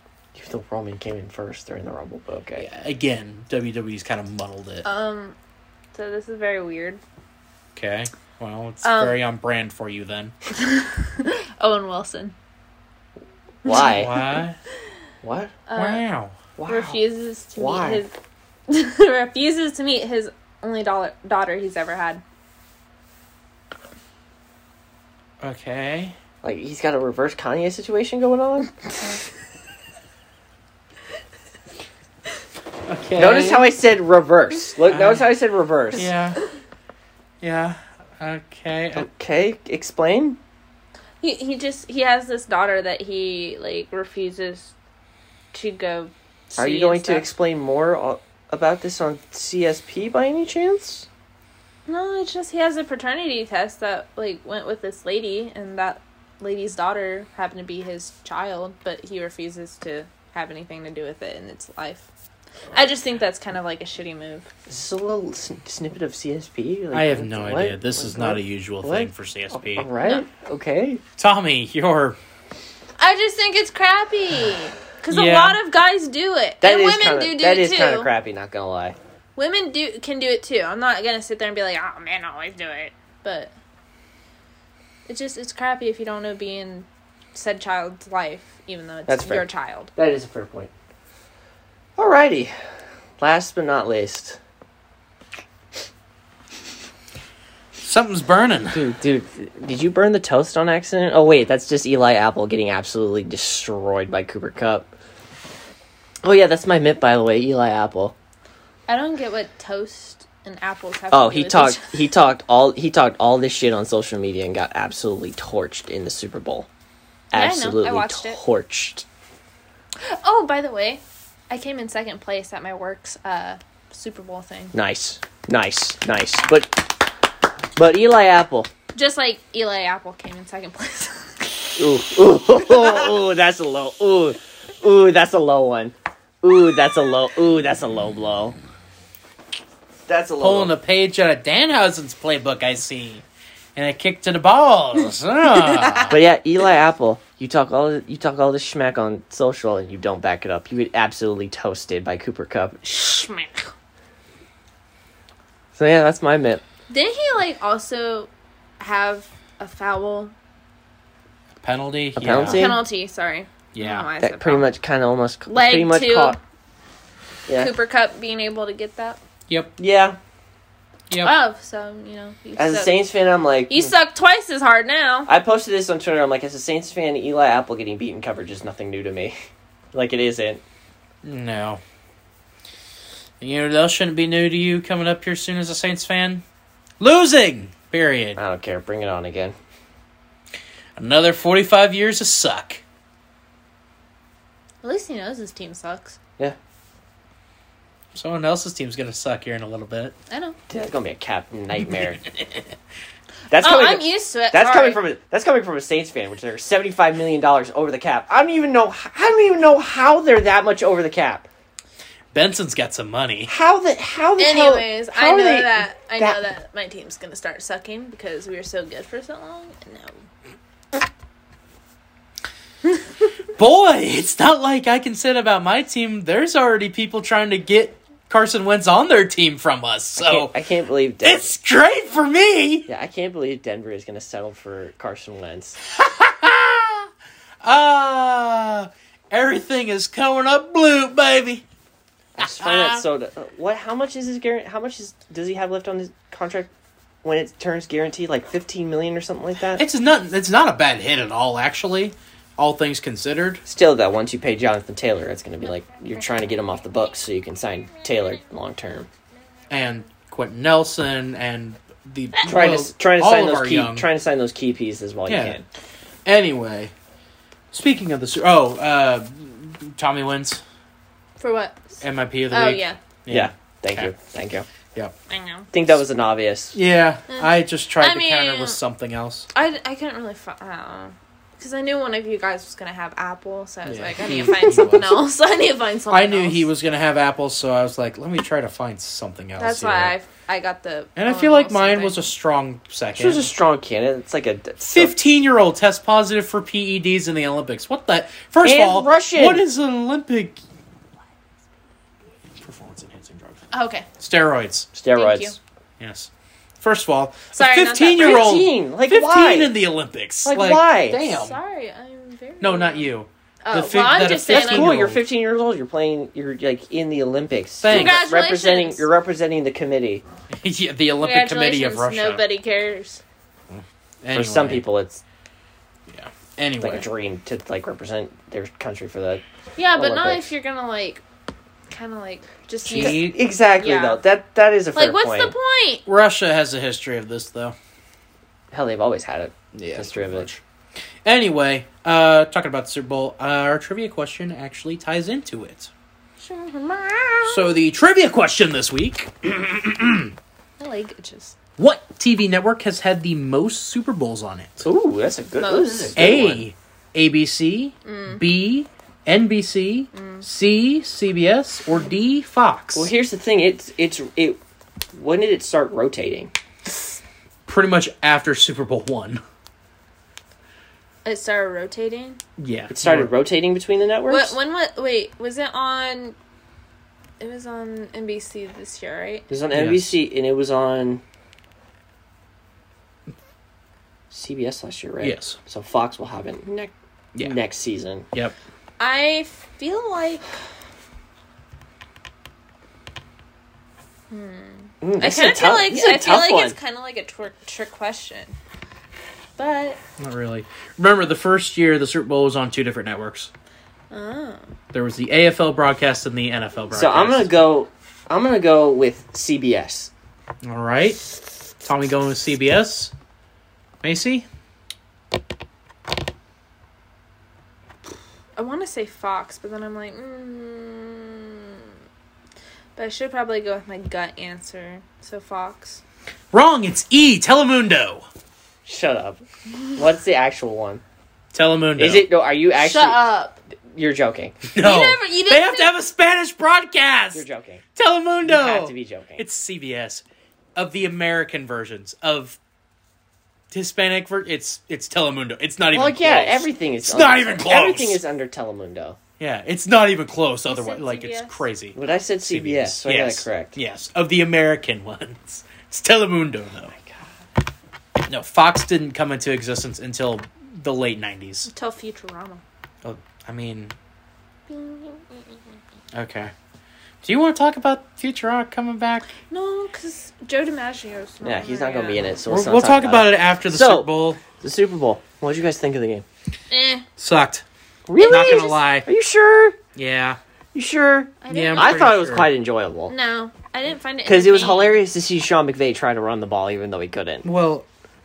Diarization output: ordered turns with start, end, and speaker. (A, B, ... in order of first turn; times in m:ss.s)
0:00.3-0:02.7 A
0:02.6-0:04.8 B
0:04.8-0:05.4 C
0:05.9-0:07.0 C
0:07.7-0:10.3 B
0:08.8-0:09.2 C
0:10.6-0:12.3 C
0:13.6-0:14.1 A
0:13.6-0:14.0 C
0:13.7-0:14.6 B
0:15.2-0:15.6 A
0:15.7-0:16.0 C
0:15.7-0:16.4 B
0:16.6-0:17.0 A
0:16.6-0:18.1 C
0:17.5-0:18.0 A
0:18.7-0:22.2 C
0:25.4-0:26.1 B
0:26.4-0:29.2 A
0:32.9-0:33.7 B
0:33.2-0:36.1 A
0:34.8-0:35.3 B
0:35.9-0:36.4 B
0:37.4-0:39.1 B
0:38.9-0:40.4 A
0:41.2-0:44.7 C
0:45.5-0:47.3 C
0:46.5-0:51.1 A
0:51.9-1:02.1 C
1:02.7-1:04.5 C
1:04.7-1:11.0 A
1:06.9-1:09.9 B
1:11.2-1:12.2 B
1:13.0-1:18.1 C
1:15.1-1:15.6 B
1:16.6-1:19.0 A
1:19.4-1:23.5 C
1:25.1-1:29.9 C
1:29.1-1:30.7 A
1:32.0-1:32.5 A
1:33.2-1:34.4 A
1:37.8-1:38.8 B
1:38.7-1:44.9 A
1:46.2-1:48.1 A
1:48.9-1:52.1 C
1:51.1-1:56.7 A
1:57.3-1:59.0 A
1:57.3-1:58.4 C
2:00.0-2:04.7 C
2:04.7-2:07.1 A
2:07.8-2:08.7 A
2:08.9-2:11.4 C
2:11.8-2:18.6 A
2:20.1-2:20.7 A
2:20.4-2:23.2 B
2:23.8-2:26.2 B
2:25.5-2:26.1 C
2:26.1-2:32.8 A
2:32.8-2:33.7 C
2:35.7-2:36.6 A
2:36.9-2:40.3 C
2:41.6-2:42.7 B
2:42.2-2:42.8 A
2:42.4-2:44.7 C
2:43.7-2:44.1 B
2:44.2-2:46.4 A
2:45.5-2:46.4 C
2:47.5-2:47.7 A
2:47.6-2:49.2 C
2:49.8-2:50.2 A
2:51.1-2:51.3 B
2:51.2-2:53.0 C
2:52.6-2:53.9 A
2:53.7-2:55.3 C
2:55.3-2:59.4 A
2:59.9-3:00.6 A
3:01.2-3:01.8 B
3:03.4-3:06.4 B
3:07.0-3:08.4 B
3:08.4-3:09.5 A
3:11.0-3:12.8 B
3:14.8-3:16.2 C
3:18.1-3:20.1 B
3:20.3-3:20.6 C
3:20.7-3:22.2 A
3:23.5-3:31.5 A
3:23.5-3:25.0 C
3:32.3-3:33.5 B
3:33.5-3:36.4 A
3:34.4-3:40.2 C
3:43.6-3:50.5 B
3:50.2-3:51.5 A
3:51.2-3:52.9 B
3:52.9-3:55.8 A
3:55.9-3:57.1 B
3:57.6-4:01.6 B
4:02.4-4:03.0 B
4:02.4-4:06.7 A
4:07.2-4:09.8 A
4:09.7-4:13.6 B
4:13.6-4:19.1 A
4:19.7-4:24.1 B
4:22.4-4:25.6 A
4:25.3-4:25.6 B
4:26.2-4:26.9 B
4:27.7-4:30.6 B
4:31.4-4:33.0 C
4:32.0-4:34.1 B
4:33.3-4:34.7 A
4:35.3-4:35.7 C
4:35.7-4:36.8 A
4:36.7-4:39.5 B
4:37.3-4:38.8 C
4:39.5-4:46.7 C
4:43.8-4:45.2 B
4:46.1-4:50.1 B
4:49.6-4:52.3 C
4:51.2-4:53.5 B
4:53.1-4:55.2 A
4:54.9-5:00.6 B
4:58.6-4:59.6 A
5:02.6-5:03.6 B
5:03.7-5:04.1 C
5:04.2-5:04.9 B
5:04.9-5:05.6 A
5:05.1-5:05.6 C
5:06.0-5:06.3 B
5:06.8-5:11.6 B
5:07.5-5:08.5 C
5:08.2-5:09.8 A
5:10.4-5:11.2 A
5:11.2-5:13.1 C
5:12.6-5:15.2 B
5:13.6-5:14.9 C
5:14.5-5:20.2 A
5:17.8-5:18.2 B
5:17.9-5:19.0 C
5:20.6-5:22.4 B
5:21.2-5:23.2 C
5:23.7-5:24.8 B
5:24.3-5:25.2 A
5:26.1-5:27.1 B
5:26.8-5:29.4 A
5:29.8-5:31.2 C
5:29.9-5:30.5 A
5:31.9-5:34.2 C
5:32.8-5:33.4 B
5:32.9-5:35.5 A
5:35.0-5:36.0 C
5:36.0-5:37.8 B
5:38.7-5:40.5 A
5:39.7-5:40.6 B
5:41.2-5:45.9 B
5:46.4-5:47.7 C
5:47.4-5:50.3 B
5:50.8-5:51.6 C
5:51.8-5:54.8 B
5:54.8-5:56.6 A
5:55.6-5:56.1 C
5:56.2-6:03.1 B
5:58.0-5:58.4 C
6:00.1-6:00.4 C
6:02.9-6:04.6 A
6:05.1-6:06.5 A
6:07.6-6:09.4 B
6:11.2-6:12.4 C
6:12.6-6:13.3 B
6:12.9-6:14.5 A
6:14.3-6:16.4 C
6:17.4-6:19.5 C
6:19.5-6:21.2 A
6:19.7-6:20.1 B
6:24.3-6:28.2 A
6:25.2-6:25.6 B
6:29.0-6:30.5 C
6:34.3-6:38.5 C
6:35.0-6:36.8 A
6:39.6-6:40.0 C
6:40.2-6:43.5 B
6:44.1-6:44.7 C
6:44.9-6:47.5 B
6:46.9-6:50.1 A
6:50.6-6:51.3 B
6:51.8-6:53.1 B
6:54.0-6:54.4 B
6:58.6-7:01.8 C
7:03.0-7:06.0 C
7:06.5-7:08.2 B
7:08.8-7:09.4 A
7:09.9-7:11.0 A
7:11.5-7:12.3 B
7:12.0-7:13.2 A
7:12.8-7:13.6 C
7:13.9-7:14.6 A
7:14.7-7:20.2 B
7:14.8-7:15.9 C
7:17.3-7:17.8 A
7:18.4-7:19.4 A
7:20.7-7:22.6 B
7:23.7-7:28.2 B
7:25.9-7:29.2 A
7:29.4-7:36.9 B
7:30.7-7:31.6 C
7:31.9-7:33.8 A
7:36.9-7:37.4 A
7:38.2-7:41.7 B
7:41.6-7:42.6 C
7:43.0-7:43.9 B
7:44.7-7:45.4 C
7:46.1-7:46.5 B
7:47.2-7:49.3 B
7:49.5-7:52.4 C
7:51.4-7:56.2 A
7:52.5-7:54.4 B
7:56.7-7:57.0 C
7:57.2-7:57.6 B
7:58.1-7:59.8 A
7:58.2-7:58.8 C
7:58.2-7:59.1 B
8:00.0-8:00.4 B
8:00.7-8:03.1 A
8:01.4-8:02.0 C
8:01.5-8:02.5 B
8:03.1-8:05.0 C
8:04.2-8:07.4 A
8:07.4-8:07.8 B